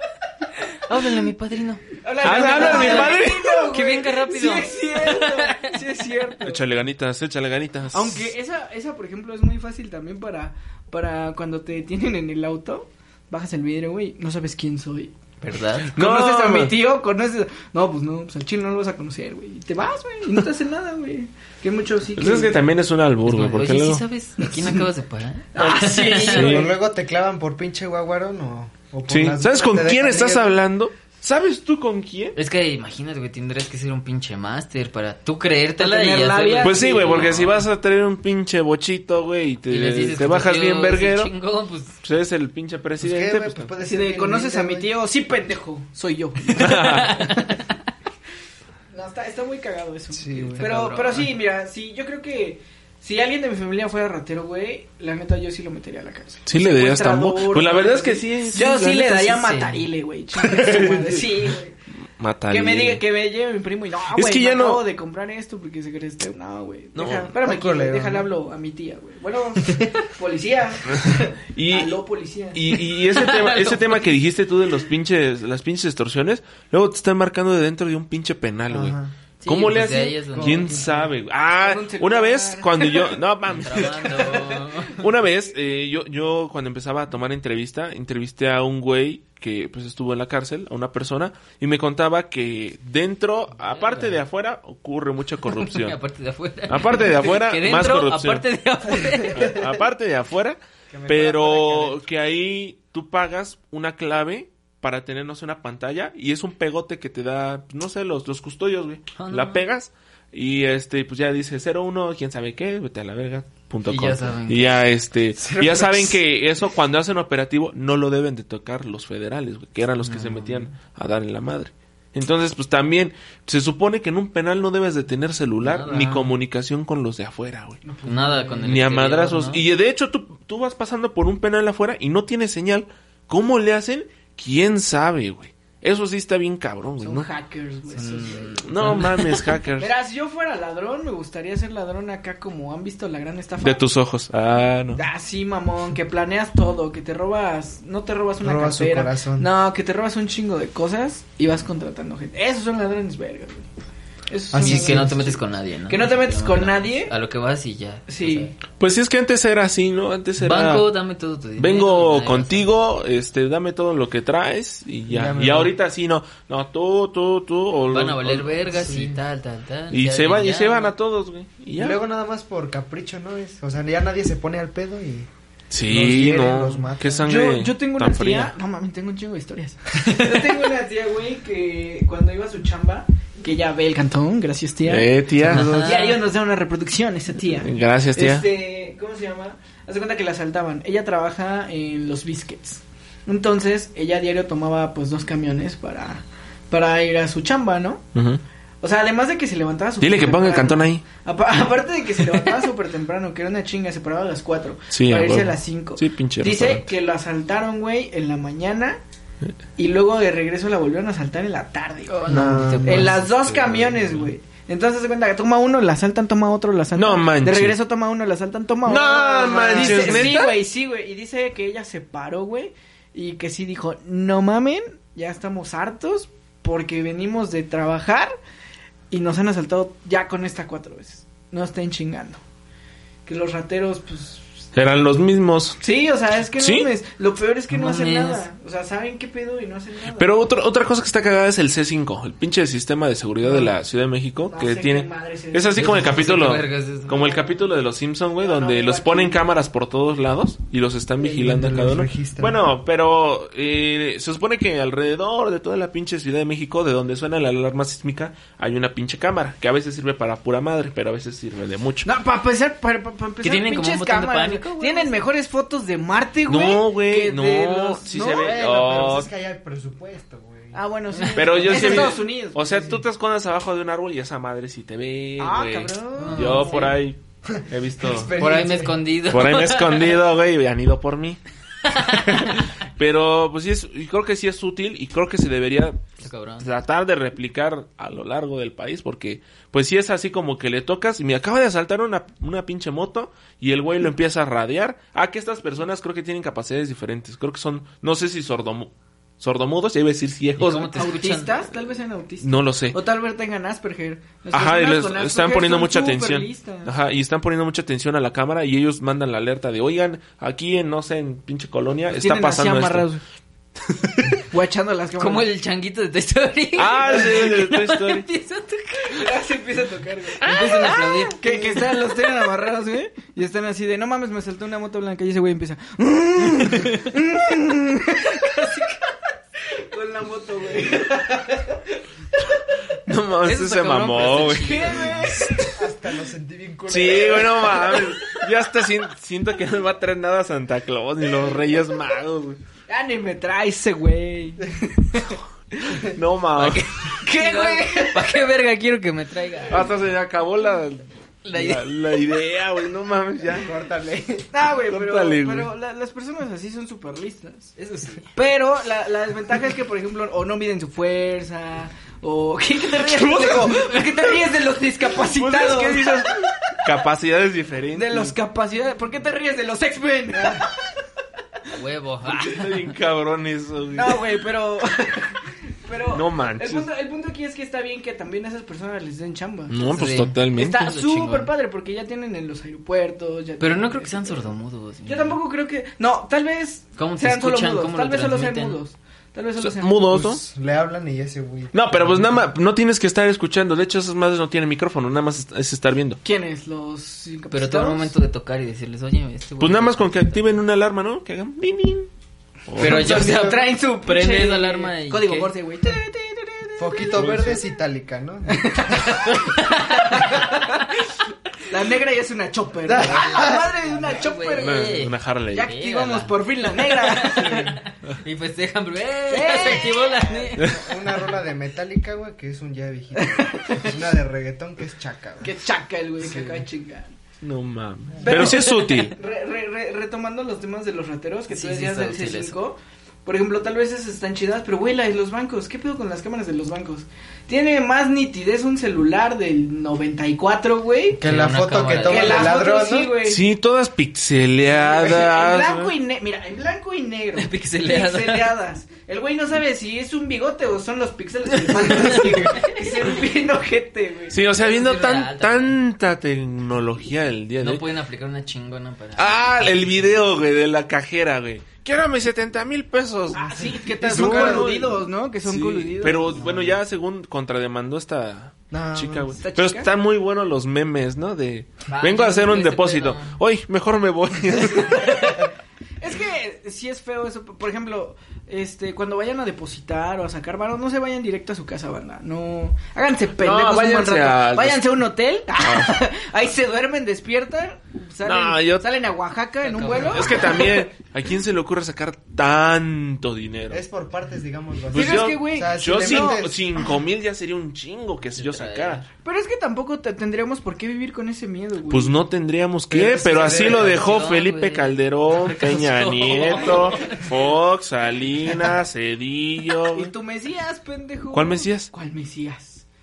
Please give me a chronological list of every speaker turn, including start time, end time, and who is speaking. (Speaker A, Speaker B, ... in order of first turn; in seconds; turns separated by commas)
Speaker A: 0.9-5.8, Speaker B: 2.0-6.6, Speaker C: 2.2-3.7, Speaker C: 6.4-8.3, Speaker B: 7.9-15.1, Speaker A: 15.4-15.9, Speaker C: 15.9-16.8, Speaker B: 15.9-22.6, Speaker C: 22.1-24.0, Speaker A: 23.3-26.4, Speaker B: 25.6-26.7, Speaker C: 25.6-26.7, Speaker D: 26.3-30.6, Speaker C: 29.1-32.4, Speaker A: 32.4-37.6, Speaker B: 35.8-37.4, Speaker C: 36.6-41.3, Speaker A: 39.7-42.0, Speaker C: 42.0-43.7, Speaker D: 43.0-44.9, Speaker B: 43.8-47.5, Speaker C: 46.5-47.2, Speaker A: 46.6-47.5, Speaker B: 48.9-61.7, Speaker D: 50.1-50.6, Speaker A: 50.4-51.3, Speaker C: 56.5-59.4, Speaker A: 59.3-59.9, Speaker C: 60.4-61.5, Speaker C: 62.2-63.0, Speaker B: 62.5-72.7, Speaker C: 64.1-64.8, Speaker C: 66.9-67.3, Speaker D: 67.4-68.3, Speaker C: 70.9-72.0, Speaker C: 72.5-96.0, Speaker A: 73.1-74.1, Speaker D: 78.7-79.1, Speaker A: 79.4-80.8, Speaker D: 80.3-81.1, Speaker B: 81.5-83.2, Speaker A: 83.5-85.0, Speaker B: 83.9-84.7, Speaker A: 93.6-94.2, Speaker A: 95.6-99.6, Speaker C: 96.7-98.4, Speaker C: 99.3-127.8, Speaker D: 100.9-102.0, Speaker A: 109.2-109.6, Speaker A: 113.9-114.7, Speaker D: 115.4-116.2, Speaker A: 120.0-120.7, Speaker A: 125.6-126.3, Speaker B: 127.8-128.7, Speaker A: 128.1-129.6, Speaker C: 128.6-137.3, Speaker B: 137.0-139.0, Speaker A: 137.9-139.3, Speaker C: 138.6-139.9, Speaker B: 139.8-143.8, Speaker C: 143.6-145.0, Speaker B: 145.0-153.7, Speaker D: 148.4-149.5, Speaker B: 154.3-157.1, Speaker D: 154.5-155.3, Speaker A: 154.6-158.5, Speaker B: 158.1-158.5, Speaker C: 158.8-160.9, Speaker A: 160.4-162.7, Speaker C: 161.6-168.6, Speaker D: 165.1-165.7, Speaker A: 167.9-170.9, Speaker D: 168.7-169.2, Speaker C: 169.9-172.0, Speaker D: 171.8-175.3, Speaker C: 175.7-178.5, Speaker D: 175.9-177.3, Speaker B: 177.3-185.1, Speaker C: 184.9-185.7, Speaker D: 185.4-186.2, Speaker A: 185.5-186.2, Speaker B: 185.8-198.0, Speaker C: 187.6-188.4, Speaker C: 198.1-198.4, Speaker B: 198.8-209.0, Speaker C: 200.0-201.1, Speaker C: 204.9-206.9, Speaker B: 209.8-212.2, Speaker A: 212.1-214.3, Speaker D: 212.3-213.1, Speaker B: 212.8-228.3, Speaker C: 216.9-217.8, Speaker C: 218.8-220.6, Speaker A: 219.8-220.1, Speaker B: 229.1-232.4, Speaker B: 233.3-234.6, Speaker C: 234.7-235.8, Speaker B: 235.8-240.4, Speaker C: 236.6-236.9, Speaker A: 237.7-238.4, Speaker C: 240.1-262.1, Speaker B: 243.4-243.7, Speaker B: 244.5-246.3, Speaker A: 245.7-247.4, Speaker B: 247.2-247.5, Speaker B: 248.4-249.4, Speaker D: 251.2-252.6, Speaker B: 262.1-268.6, Speaker A: 263.4-265.1, Speaker C: 266.5-269.3, Speaker D: 268.2-270.8, Speaker B: 270.7-273.0, Speaker A: 271.1-271.8, Speaker C: 271.3-278.3, Speaker B: 275.4-276.8, Speaker A: 276.2-277.0, Speaker D: 276.3-276.6, Speaker D: 277.4-279.0, Speaker A: 278.4-280.1, Speaker C: 279.3-281.4, Speaker A: 281.8-282.6, Speaker C: 282.1-286.1, Speaker A: 286.2-286.6, Speaker C: 286.6-301.1, Speaker A: 300.6-301.6, Speaker B: 301.0-306.9, Speaker C: 302.4-303.0, Speaker C: 304.5-313.1, Speaker B: 312.1-313.2, Speaker C: 313.9-314.4, Speaker B: 314.5-315.5, Speaker A: 315.2-319.3, Speaker C: 316.8-318.3, Speaker B: 317.0-317.6, Speaker B: 319.0-332.0, Speaker C: 320.4-321.0, Speaker A: 320.4-321.4, Speaker C: 333.1-335.3, Speaker A: 333.4-335.5, Speaker B: 334.5-335.7, Speaker D: 335.7-338.1, Speaker C: 336.9-342.6, Speaker B: 341.4-341.8, Speaker B: 342.9-346.1, Speaker C: 346.1-346.9, Speaker A: 346.6-349.9, Speaker B: 347.1-348.4, Speaker C: 349.7-353.7, Speaker A: 351.4-351.9, Speaker D: 353.6-354.5, Speaker B: 354.5-357.7, Speaker C: 354.8-355.7, Speaker A: 357.8-358.3, Speaker B: 358.3-366.8, Speaker C: 363.0-363.8, Speaker C: 365.2-368.3, Speaker B: 367.9-370.9, Speaker A: 371.7-372.9, Speaker C: 372.2-374.3, Speaker B: 373.9-384.5, Speaker C: 376.1-376.9, Speaker C: 379.7-380.9, Speaker A: 379.9-381.5, Speaker A: 383.6-385.4, Speaker B: 385.0-390.1, Speaker A: 387.0-388.8, Speaker C: 389.6-390.4, Speaker D: 390.1-392.3, Speaker C: 391.7-396.2, Speaker B: 396.2-398.1, Speaker A: 397.5-400.3, Speaker C: 399.6-402.1, Speaker C: 402.7-403.2, Speaker A: 402.8-405.5, Speaker B: 402.8-407.6, Speaker D: 402.9-403.6, Speaker D: 406.8-409.2, Speaker C: 407.2-407.6, Speaker B: 408.5-411.1, Speaker A: 409.2-410.5, Speaker B: 411.6-415.0, Speaker D: 412.9-413.7, Speaker A: 413.0-420.8, Speaker C: 414.6-415.7, Speaker B: 415.5-417.8, Speaker B: 419.3-420.6, Speaker D: 420.6-425.6, Speaker B: 423.1-424.0, Speaker B: 425.4-427.2, Speaker D: 426.2-426.6, Speaker C: 427.4-429.1, Speaker D: 428.2-428.5, Speaker B: 428.2-441.2, Speaker A: 428.3-429.0, Speaker A: 431.5-432.6, Speaker D: 441.1-443.1, Speaker A: 441.2-442.5, Speaker B: 442.0-443.4, Speaker C: 443.2-445.9, Speaker B: 444.6-454.4, Speaker A: 447.4-448.6, Speaker C: 454.3-457.9, Speaker A: 454.5-455.7, Speaker A: 457.6-460.2, Speaker C: 459.1-475.5, Speaker B: 463.3-466.4, Speaker D: 463.7-464.9, Speaker A: 466.4-466.8, Speaker D: 468.7-469.4, Speaker B: 469.4-469.9, Speaker A: 471.9-473.3, Speaker B: 474.7-475.5, Speaker B: 476.0-490.9, Speaker C: 483.4-484.9, Speaker C: 485.6-485.9, Speaker C: 488.2-488.9, Speaker A: 489.6-490.7, Speaker C: 489.9-493.8, Speaker D: 493.7-496.6, Speaker C: 494.9-499.0, Speaker B: 494.9-496.4, Speaker A: 498.4-499.1, Speaker B: 499.2-502.2, Speaker C: 501.9-510.1, Speaker D: 502.9-504.0, Speaker A: 503.7-507.2, Speaker B: 506.6-506.8, Speaker B: 509.9-512.8, Speaker C: 511.3-511.9